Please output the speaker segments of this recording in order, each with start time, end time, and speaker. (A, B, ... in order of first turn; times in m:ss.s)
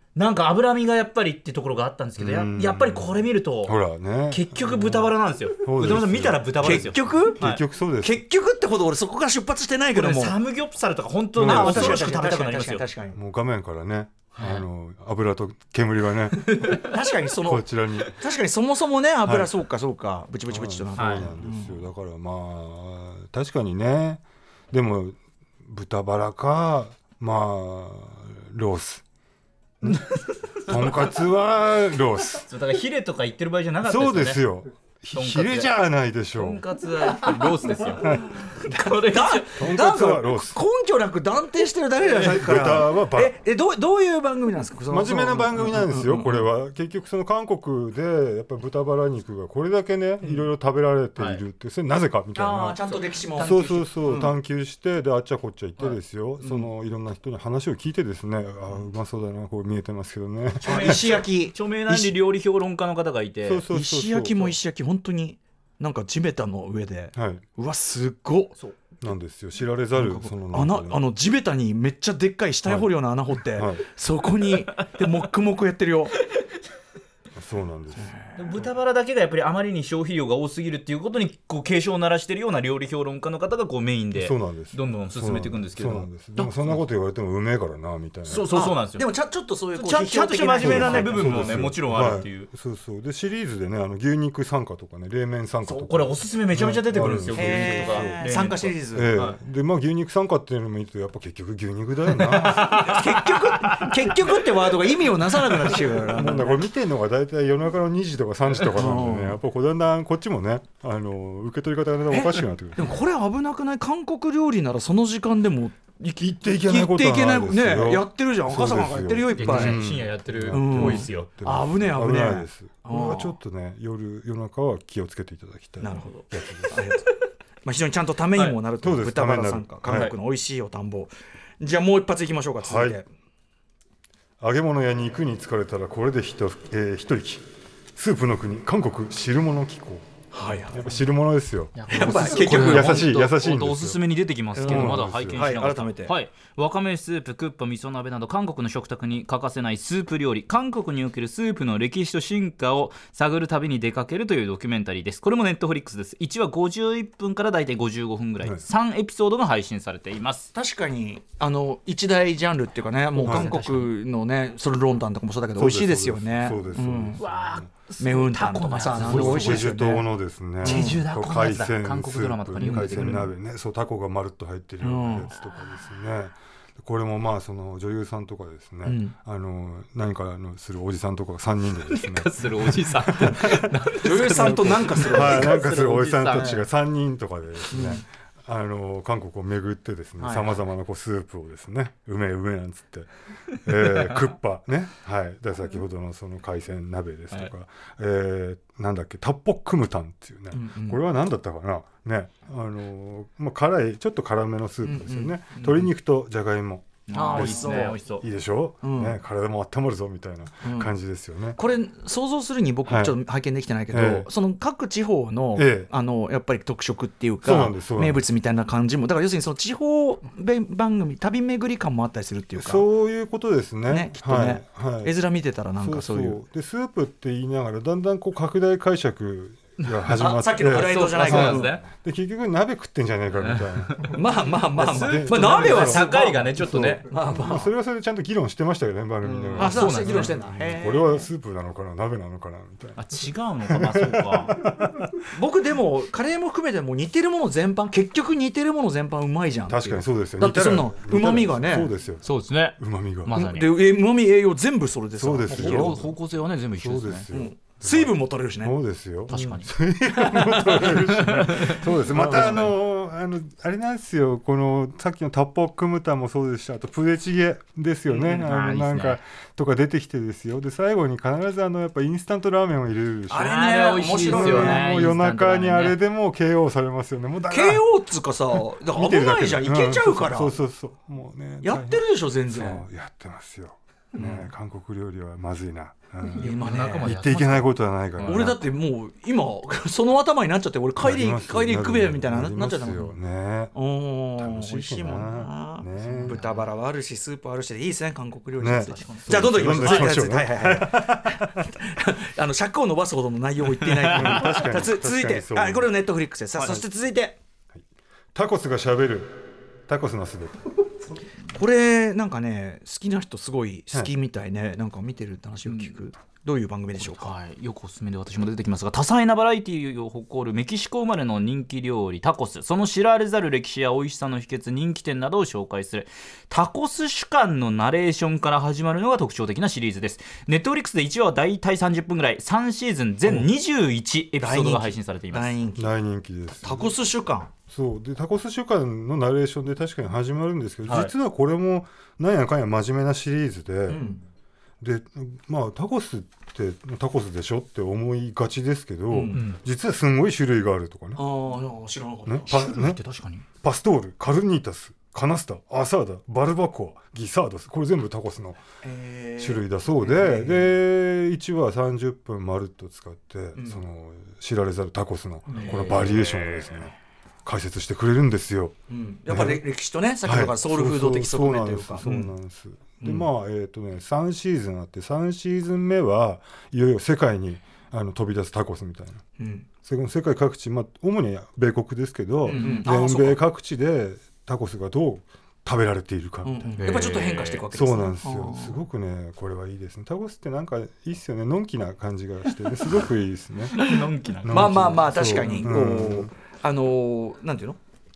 0:00.1-0:03.8 A
0:02.2-0:08.2 B
0:04.3-0:07.6 A
0:06.6-0:07.4 C
0:08.0-0:10.4 C
0:09.9-0:12.8 A
0:11.4-0:12.2 B
0:11.4-0:13.2 C
0:13.1-0:16.7 B
0:14.4-0:14.6 A
0:16.4-0:16.9 A
0:16.7-0:21.8 C
0:17.4-0:18.2 B
0:19.2-0:19.5 B
0:20.5-0:29.0 B
0:21.0-0:21.3 A
0:29.8-0:30.1 B
0:30.6-0:32.5 B
0:30.6-0:31.0 A
0:32.4-0:34.4 A
0:33.8-0:36.6 B
0:35.1-0:35.7 A
0:36.3-0:39.5 A
0:38.0-0:38.3 B
0:38.6-0:46.4 C
0:39.6-0:40.6 B
0:42.0-0:42.5 A
0:42.2-0:43.3 B
0:44.9-0:52.8 B
0:52.4-0:54.3 C
0:52.9-0:54.3 A
0:53.4-1:01.2 B
1:00.6-1:03.6 A
1:00.6-1:02.1 C
1:03.4-1:04.6 B
1:03.7-1:08.5 C
1:07.1-1:07.4 B
1:09.0-1:11.0 B
1:09.9-1:16.2 C
1:12.6-1:12.9 B
1:13.5-1:13.8 B
1:17.4-1:18.1 B
1:18.0-1:18.6 C
1:18.4-1:26.4 A
1:24.1-1:28.5 B
1:28.3-1:29.0 A
1:28.5-1:31.7 C
1:29.7-1:32.5 A
1:30.6-1:38.3 B
1:35.6-1:39.4 A
1:37.3-1:39.1 C
1:38.9-1:43.0 B
1:42.2-1:44.3 A
1:42.5-1:46.6 C
1:45.5-1:45.8 A
1:46.0-1:53.0 B
1:48.7-1:49.4 C
1:52.1-1:59.8 C
1:56.2-2:06.8 B
1:59.3-2:01.3 A
2:00.5-2:03.3 C
2:05.8-2:07.1 C
2:07.6-2:13.1 C
2:08.8-2:10.1 B
2:09.9-2:10.1 A
2:12.6-2:13.0 B
2:14.4-2:17.4 B
2:18.0-2:20.0 B
2:20.3-2:20.9 C
2:20.7-2:24.0 B
2:21.7-2:40.5 A
2:21.9-2:23.1 C
2:24.6-2:25.5 B
2:24.6-2:26.1 C
2:40.5-2:47.2 C
2:43.1-2:43.9 A
2:43.2-2:43.5 B
2:45.5-2:47.7 B
2:47.2-2:49.8 A
2:48.0-2:50.0 C
2:49.0-3:31.6 B
2:50.6-2:51.0 C
2:50.6-2:53.3 A
2:52.6-2:53.3 C
2:54.8-2:55.3 C
2:58.8-2:59.1 C
3:01.9-3:06.6 A
3:03.5-3:05.7 C
3:07.7-3:08.0 C
3:10.2-3:10.6 C
3:20.5-3:21.0 C
3:24.8-3:25.8 C
3:27.1-3:28.2 A
3:27.1-3:28.0 C
3:28.8-3:29.2 C
3:30.6-3:30.9 C
3:31.6-3:42.8 C
3:32.8-3:33.2 B
3:33.9-3:34.3 B
3:35.5-3:35.9 B
3:37.4-3:38.2 B
3:42.6-3:45.1 B
3:43.9-3:46.4 C
3:45.8-3:54.2 B
3:49.8-3:51.8 A
3:50.1-3:51.8 C
3:53.4-3:54.2 A
3:54.1-3:57.7 C
3:54.7-3:57.0 A
3:54.7-4:03.0 B
3:59.2-4:00.4 A
3:59.6-4:01.3 C
4:03.0-4:04.5 A
4:03.7-4:05.2 B
4:05.3-4:11.9 C
4:09.7-4:12.2 B
4:12.2-4:13.7 A
4:12.8-4:13.3 B
4:13.3-4:16.1 C
4:15.2-4:16.1 B
4:15.5-4:17.3 A
4:16.8-4:33.6 B
4:17.3-4:18.7 C
4:19.3-4:22.7 A
4:28.1-4:29.2 A
4:33.3-4:34.8 C
4:33.3-4:36.0 A
4:34.2-4:37.8 B
4:37.5-4:40.5 C
4:38.8-4:48.7 B
4:41.6-4:42.8 C
4:44.2-4:44.4 C
4:46.3-4:48.5 A
4:46.4-4:47.1 C
4:48.2-4:53.1 C
4:51.0-4:53.7 B
4:53.7-5:07.4 C
4:54.4-4:56.4 B
4:56.0-4:56.7 A
4:58.6-5:01.7 B
4:58.8-5:00.2 A
5:03.8-5:04.6 A
5:04.1-5:05.9 B
5:06.5-5:06.8 A
5:08.3-5:10.6 B
5:11.5-5:17.3 C
5:15.6-5:15.9 A
5:17.0-5:35.5 A
5:34.4-5:35.9 C
5:35.8-5:36.9 B
5:36.6-5:37.5 C
5:37.7-5:44.0 B
5:43.9-5:44.2 C
5:44.8-5:51.2 B
5:49.1-5:49.4 C
5:49.3-5:49.6 A
5:51.2-5:52.6 C
5:52.2-5:53.0 B
5:52.5-5:53.4 A
5:53.6-5:58.6 B
5:58.8-6:00.7 C
5:59.4-6:06.9 B
6:03.6-6:03.8 C
6:05.5-6:06.7 C
6:05.5-6:06.3 A
6:07.4-6:08.7 B
6:08.9-6:12.3 C
6:09.3-6:09.6 B
6:10.2-6:19.2 B
6:13.0-6:13.3 C
6:19.4-6:19.7 C
6:19.8-6:27.0 B
6:22.4-6:23.4 C
6:22.5-6:22.9 A
6:26.4-6:28.8 C
6:26.8-6:27.6 A
6:27.7-6:33.8 B
6:33.7-6:35.7 A
6:33.8-6:37.8 C
6:34.4-6:36.3 B